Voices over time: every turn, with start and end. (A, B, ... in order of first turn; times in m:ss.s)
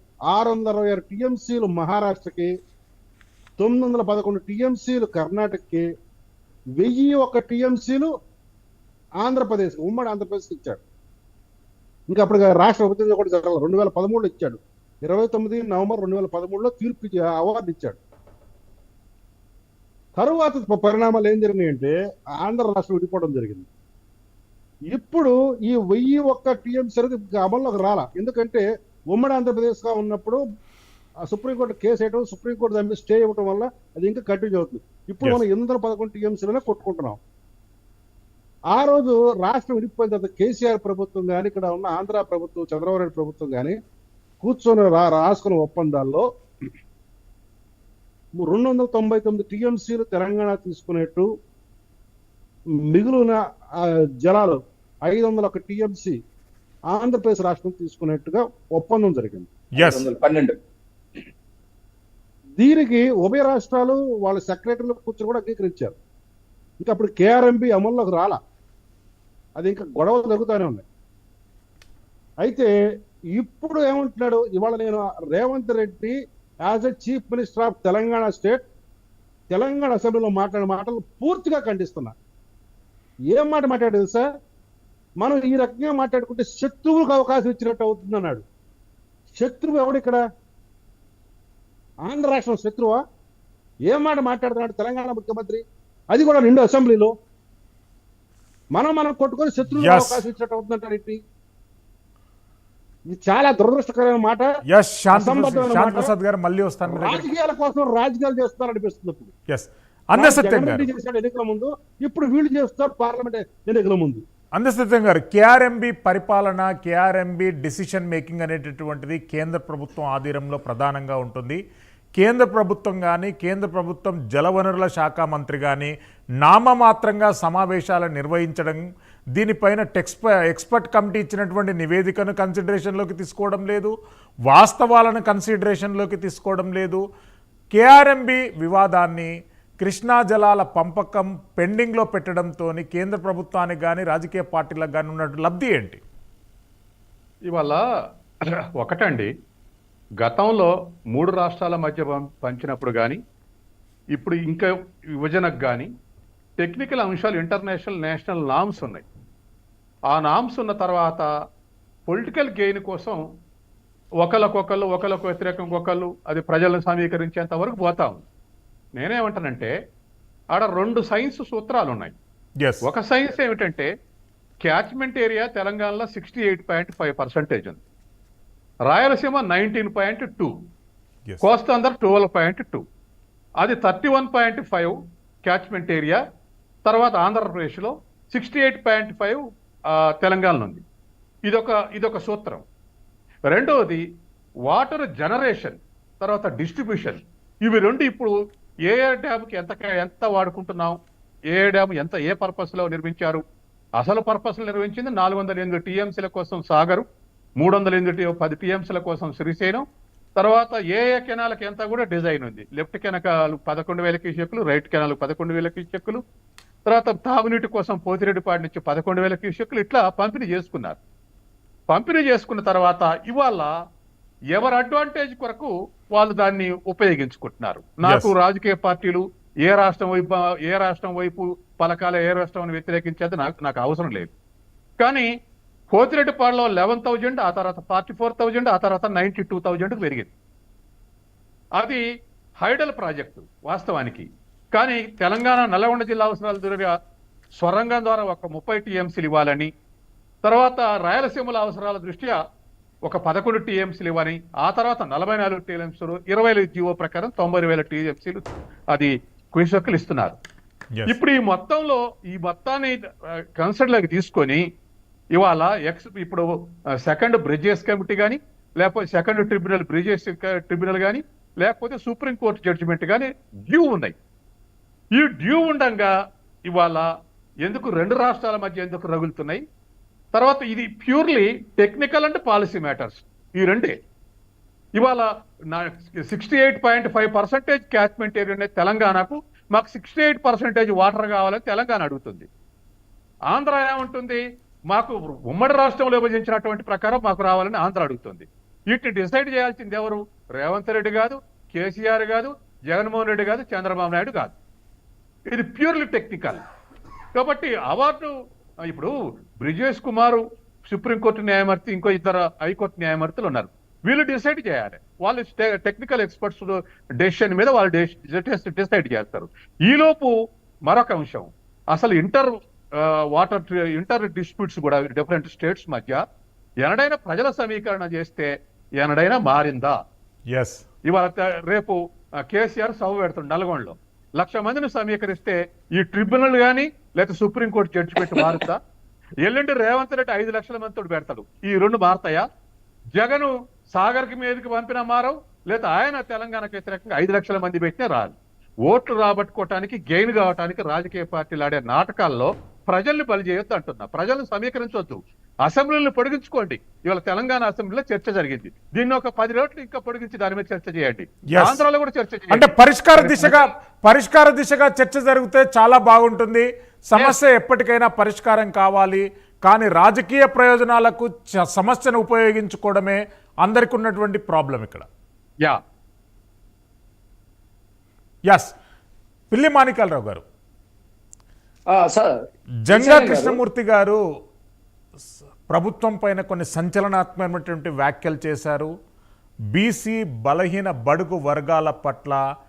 0:00.3-0:02.5 A
0:03.6-0:05.8 A
0:06.8-0:08.1 A
0:09.2-0:10.8 A
0:12.1-0:18.0 A
0:20.2-0:23.7 A
0:24.9-0:30.4 A
0:31.2-0:37.2 A
0:38.7-0:43.8 A
0:44.4-0:46.2 A
0:48.4-0:51.3 A
0:52.9-0:56.2 A
0:56.9-0:59.5 A
0:59.8-1:00.0 B
0:59.8-1:00.6 C
1:02.6-1:06.0 A
1:06.8-1:08.4 A
1:09.6-1:10.8 A
1:12.4-1:12.7 A
1:13.3-1:18.6 A
1:19.5-1:22.1 A
1:23.3-1:24.2 A
1:25.2-1:28.4 A
1:29.4-1:30.2 A
1:32.0-1:33.0 A
1:33.9-1:37.1 A
1:38.7-1:41.2 A
1:39.7-1:40.2 B
1:43.1-1:44.5 A
1:44.7-1:47.2 B
1:45.1-1:46.1 A
1:47.0-1:49.3 A
1:49.5-1:50.9 B
1:50.1-1:54.2 A
1:54.5-2:01.6 B
2:02.2-2:08.8 B
2:09.3-2:13.9 B
2:14.5-2:17.0 B
2:17.7-2:26.0 B
2:27.5-2:27.8 D
2:28.8-2:29.3 D
2:30.2-2:33.2 D
2:34.1-2:35.9 D
2:36.6-2:39.0 D
2:40.1-2:41.2 D
2:42.1-2:43.2 D
2:44.2-2:48.2 D
2:49.0-2:49.7 D
2:50.5-2:52.1 D
2:52.8-2:53.9 D
2:54.6-2:57.8 D
2:58.9-3:00.5 D
3:01.4-3:02.8 D
3:03.6-3:06.2 D
3:06.8-3:09.4 D
3:10.2-3:10.8 D
3:11.5-3:12.6 D
3:13.5-3:14.0 D
3:14.7-3:18.3 D
3:18.9-3:21.0 D
3:21.5-3:23.4 D
3:24.0-3:27.0 D
3:27.6-3:29.8 D
3:30.4-3:36.2 D
3:36.9-3:41.0 D
3:41.9-3:43.7 D
3:44.5-3:54.3 D
3:48.0-3:48.3 B
3:55.0-3:55.3 D
3:55.9-4:00.3 D
4:02.6-4:06.9 D
4:07.6-4:09.7 D
4:10.4-4:12.4 D
4:13.1-4:20.4 D
4:21.1-4:23.0 D
4:23.6-4:24.6 D
4:25.3-4:26.4 D
4:27.0-4:34.1 D
4:35.2-4:36.1 D
4:36.7-4:37.0 D
4:37.6-4:39.6 D
4:40.3-4:43.9 D
4:45.0-4:52.5 D
4:53.5-4:54.4 D
4:54.9-5:04.5 D
5:05.5-5:06.6 D
5:07.3-5:08.3 D
5:08.9-5:20.3 D
5:20.9-5:26.2 D
5:26.8-5:30.0 D
5:30.5-5:30.8 B
5:31.1-5:32.0 D
5:32.5-5:38.8 D
5:39.4-5:42.4 D
5:43.2-5:48.4 D
5:48.9-6:03.7 D
6:01.5-6:01.8 B
6:02.5-6:15.0 B
6:19.5-6:20.4 B
6:21.9-6:23.6 C
6:22.9-6:24.2 B
6:25.2-6:28.9 B
6:29.7-6:32.4 B